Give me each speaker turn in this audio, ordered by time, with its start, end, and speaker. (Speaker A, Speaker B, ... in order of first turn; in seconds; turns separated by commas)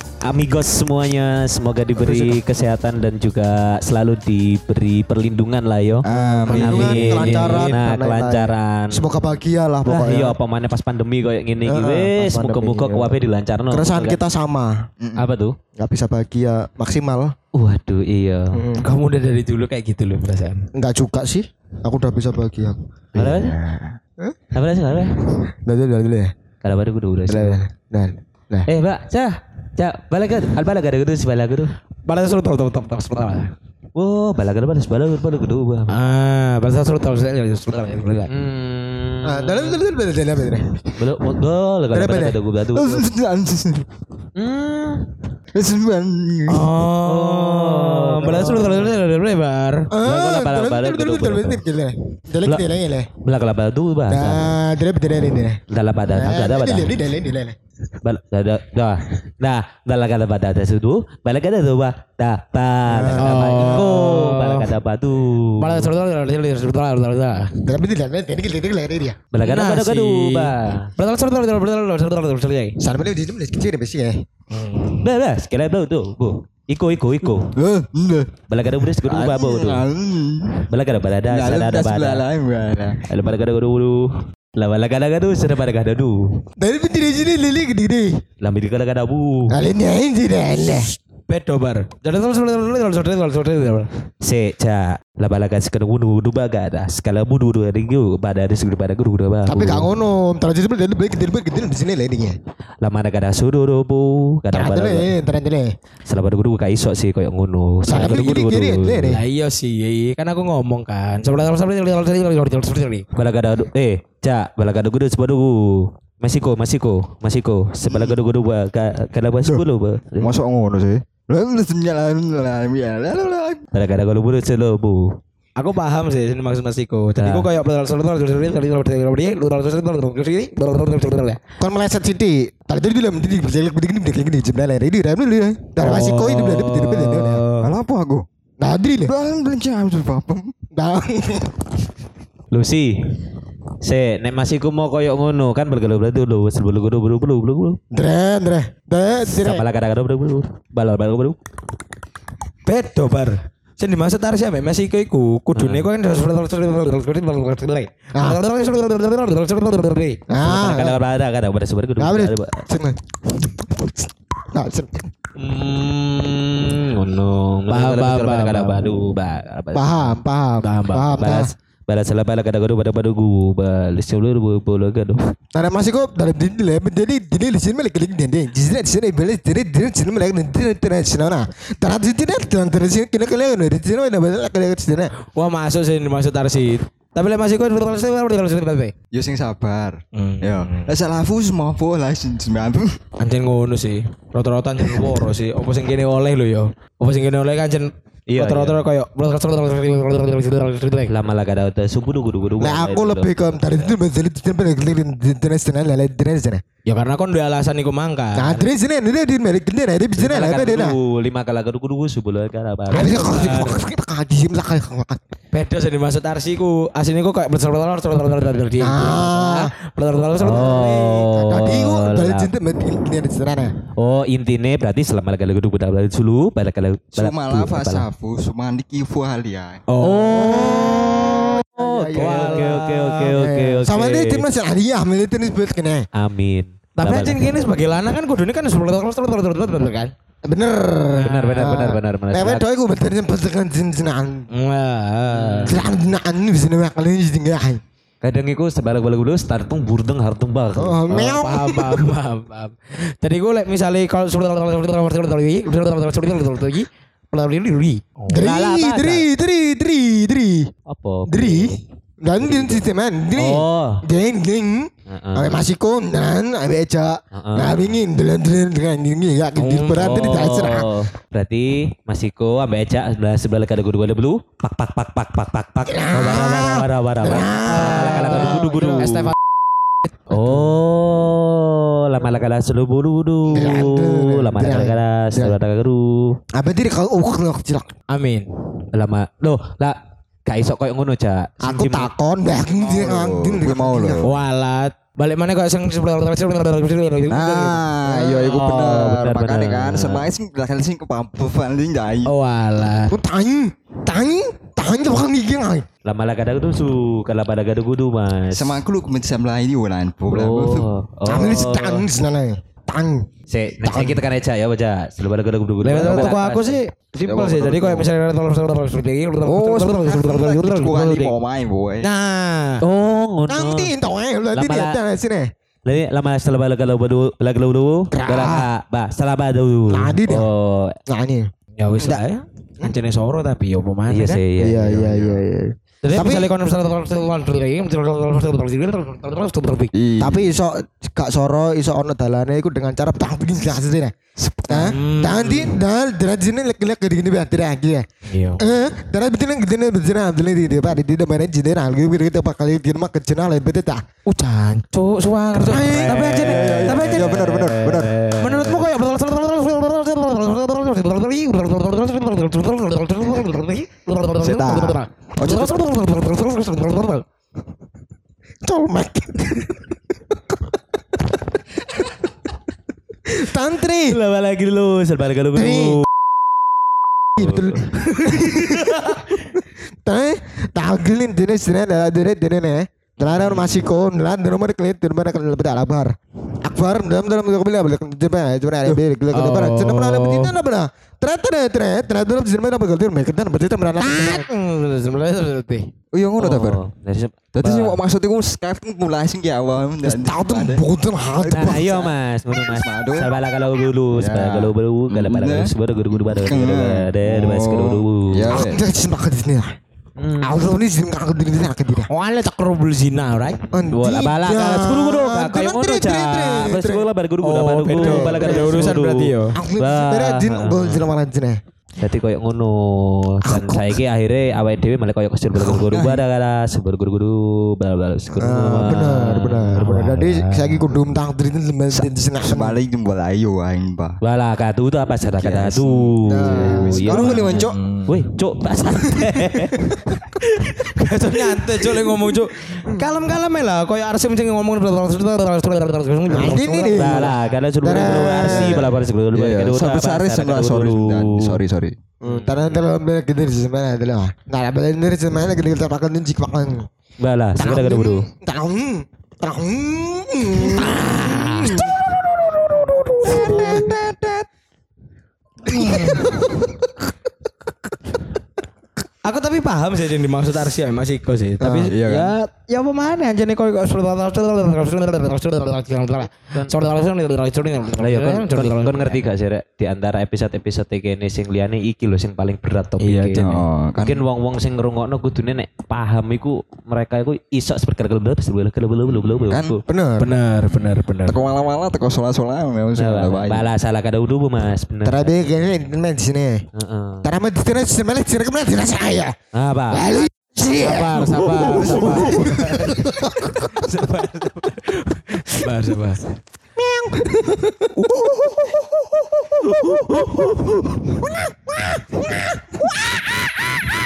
Speaker A: 0.2-9.0, Speaker B: 6.0-7.4, Speaker C: 6.3-7.8, Speaker D: 6.5-10.4, Speaker A: 9.8-14.2, Speaker D: 11.7-13.2, Speaker D: 13.7-14.7, Speaker B: 15.0-15.3, Speaker A: 15.2-15.6, Speaker D: 15.8-17.3, Speaker A: 17.5-18.6, Speaker D: 18.5-18.9, Speaker C: 18.8-20.6, Speaker D: 20.7-22.8, Speaker A: 23.1-23.6, Speaker B: 23.2-24.0, Speaker A: 24.5-25.3, Speaker D: 25.5-26.3, Speaker A: 26.6-27.6, Speaker D: 27.3-28.7, Speaker A: 28.7-31.8, Speaker C: 32.0-33.5, Speaker A: 34.0-35.9, Speaker C: 35.9-38.3, Speaker A: 38.3-39.8, Speaker D: 39.2-40.9, Speaker A: 41.0-43.1, Speaker D: 41.9-42.4, Speaker B: 42.7-43.9, Speaker A: 44.4-45.1, Speaker B: 45.5-46.7, Speaker C: 46.5-49.9, Speaker A: 47.1-48.9, Speaker D: 49.9-53.1, Speaker A: 50.0-51.6, Speaker A: 53.2-54.6, Speaker D: 54.1-55.6, Speaker A: 55.7-57.0, Speaker D: 56.1-57.6, Speaker A: 58.0-65.9, Speaker D: 62.9-63.8, Speaker C: 63.1-64.7, Speaker C: 65.6-67.5, Speaker D: 67.6-69.2, Speaker A: 69.3-70.9, Speaker C: 69.4-72.8, Speaker D: 72.8-74.2, Speaker C: 74.5-75.1, Speaker A: 75.0-77.5, Speaker B: 77.4-78.3, Speaker A: 78.5-79.8, Speaker B: 79.0-80.7, Speaker A: 80.7-82.2, Speaker B: 81.3-83.1, Speaker A: 83.1-84.0, Speaker A: 84.5-86.2, Speaker D: 86.6-88.2, Speaker A: 88.4-89.5, Speaker D: 89.5-90.9, Speaker C: 91.3-93.9, Speaker A: 94.2-99.9, Speaker D: 99.5-102.4, Speaker A: 102.8-105.1, Speaker D: 104.5-105.7, Speaker A: 106.1-109.2, Speaker D: 107.9-109.2, Speaker C: 109.1-113.0, Speaker A: 113.2-120.3, Speaker B: 117.9-118.1, Speaker B: 120.2-123.6, Speaker A: 123.7-125.2, Speaker C: 125.6-131.4, Speaker A: 127.2-127.5, Speaker D: 131.6-137.4, Speaker C: 135.8-137.7, Speaker B: 137.6-138.3, Speaker D: 138.6-139.1, Speaker B: 139.1-140.5, Speaker D: 140.8-141.7, Speaker A: 142.5-143.2, Speaker A: 143.8-147.8, Speaker D: 147.9-149.7, Speaker A: 149.3-151.4, Speaker C: 152.7-160.2, Speaker A: 155.6-155.9, Speaker D: 158.2-158.4, Speaker D: 160.3-161.0, Speaker A: 160.4-162.7, Speaker D: 162.0-165.1, Speaker A: 165.4-170.1, Speaker C: 167.7-168.8, Speaker D: 169.7-171.5, Speaker C: 170.6-171.1, Speaker A: 171.2-175.2, Speaker D: 175.5-185.1, Speaker C: 185.3-188.9, Speaker B: 189.1-193.0, Speaker C: 190.2-190.9, Speaker C: 193.2-201.1, Speaker A: 198.3-198.8, Speaker A: 201.1-203.6, Speaker D: 202.6-206.6, Speaker C: 206.9-208.7, Speaker D: 208.3-211.0, Speaker A: 210.2-213.3, Speaker C: 212.9-213.8, Speaker D: 212.9-215.2, Speaker C: 215.5-221.2, Speaker D: 218.8-219.7, Speaker A: 220.4-222.5, Speaker D: 220.6-223.8, Speaker A: 224.0-228.1, Speaker B: 227.2-229.8, Speaker C: 229.9-231.0, Speaker A: 230.2-230.6, Speaker D: 230.3-236.1, Speaker A: 231.8-234.4, Speaker C: 232.1-233.3, Speaker A: 236.2-237.4, Speaker C: 237.0-240.1, Speaker D: 240.4-244.5, Speaker C: 241.2-241.7, Speaker A: 241.2-242.6, Speaker C: 244.5-245.8, Speaker A: 245.3-245.8, Speaker D: 245.7-247.8, Speaker A: 248.2-251.4, Speaker D: 250.8-252.1, Speaker C: 251.1-258.2, Speaker A: 258.3-259.3, Speaker D: 258.3-260.7, Speaker A: 260.9-261.8, Speaker D: 261.3-270.9, Speaker A: 262.4-262.8, Speaker A: 263.4-264.0, Speaker A: 265.1-265.6, Speaker A: 267.3-267.8, Speaker C: 269.6-270.1, Speaker A: 269.9-279.3, Speaker D: 275.9-278.9, Speaker C: 277.7-279.3, Speaker A: 280.3-286.4, Speaker D: 283.5-285.6, Speaker D: 286.5-287.9, Speaker C: 288.1-288.5, Speaker A: 288.9-292.1, Speaker D: 291.6-294.2, Speaker B: 292.7-294.4, Speaker C: 294.2-297.8, Speaker B: 297.3-302.3, Speaker A: 298.1-300.3, Speaker C: 302.2-303.2, Speaker D: 303.1-305.9, Speaker A: 306.0-308.8, Speaker B: 308.5-310.9, Speaker A: 310.3-312.0, Speaker D: 311.3-313.3, Speaker A: 313.5-316.8, Speaker D: 313.8-314.2, Speaker C: 315.8-321.4, Speaker B: 317.2-318.1, Speaker B: 319.5-322.1, Speaker C: 322.0-322.8, Speaker A: 322.8-323.9, Speaker D: 323.5-325.5, Speaker A: 324.6-325.0, Speaker A: 325.9-331.0, Speaker D: 328.1-328.7, Speaker D: 329.9-330.5, Speaker D: 331.1-332.2, Speaker C: 331.8-334.4, Speaker A: 334.1-335.1, Speaker D: 334.6-336.5, Speaker C: 336.0-339.9, Speaker B: 339.9-340.5, Speaker D: 340.2-344.1, Speaker B: 344.5-344.8, Speaker D: 344.7-348.1, Speaker C: 344.7-345.7, Speaker C: 348.3-348.6, Speaker D: 348.6-354.0, Speaker C: 354.3-357.8, Speaker D: 355.6-356.7, Speaker A: 355.8-358.8, Speaker B: 356.4-358.2, Speaker C: 358.4-367.2, Speaker B: 364.4-365.8, Speaker D: 368.6-369.8, Speaker D: 373.3-374.2, Speaker A: 374.1-376.1, Speaker D: 375.6-376.0, Speaker D: 377.4-378.9, Speaker A: 377.4-378.0, Speaker A: 378.6-379.2, Speaker D: 379.5-394.5, Speaker A: 383.5-383.8, Speaker C: 389.3-390.5, Speaker C: 394.0-395.9, Speaker B: 396.1-396.8, Speaker A: 396.4-398.0, Speaker B: 397.5-403.3, Speaker D: 400.0-401.9, Speaker A: 401.5-408.6, Speaker B: 404.2-408.8, Speaker D: 408.5-409.7, Speaker A: 410.2-410.6, Speaker D: 410.4-412.1, Speaker C: 412.1-413.6, Speaker D: 413.7-417.1, Speaker A: 413.9-421.1, Speaker C: 417.4-419.6, Speaker D: 418.0-419.0, Speaker D: 419.5-421.6, Speaker A: 422.0-430.2, Speaker D: 423.5-424.0, Speaker B: 425.6-426.2, Speaker D: 428.4-432.8, Speaker C: 429.9-430.8, Speaker B: 431.9-434.2, Speaker A: 434.2-440.1, Speaker B: 435.4-437.8, Speaker D: 436.3-437.6, Speaker C: 437.1-438.1, Speaker C: 440.6-447.3, Speaker D: 446.3-449.0, Speaker A: 446.9-451.6, Speaker B: 448.0-452.0, Speaker D: 452.2-456.9, Speaker A: 452.2-452.8, Speaker A: 457.2-458.3, Speaker D: 457.6-461.8, Speaker C: 460.8-464.0, Speaker B: 461.1-461.9, Speaker D: 463.3-463.9, Speaker B: 463.6-464.5, Speaker C: 465.7-466.4, Speaker D: 465.9-466.5, Speaker C: 469.2-479.2, Speaker D: 471.6-471.9, Speaker B: 471.8-472.4, Speaker A: 478.0-489.8, Speaker C: 483.0-483.6, Speaker B: 483.3-484.2, Speaker B: 489.1-489.8, Speaker D: 489.9-490.3, Speaker C: 490.2-491.4, Speaker B: 491.2-493.7, Speaker A: 492.9-495.3, Speaker D: 495.0-496.6, Speaker A: 496.8-497.3, Speaker D: 497.2-499.3, Speaker A: 499.6-500.0, Speaker D: 499.9-503.5, Speaker C: 500.8-506.4, Speaker B: 501.5-502.9, Speaker D: 506.8-508.7, Speaker D: 509.6-510.4, Speaker A: 510.0-510.4, Speaker D: 511.1-513.6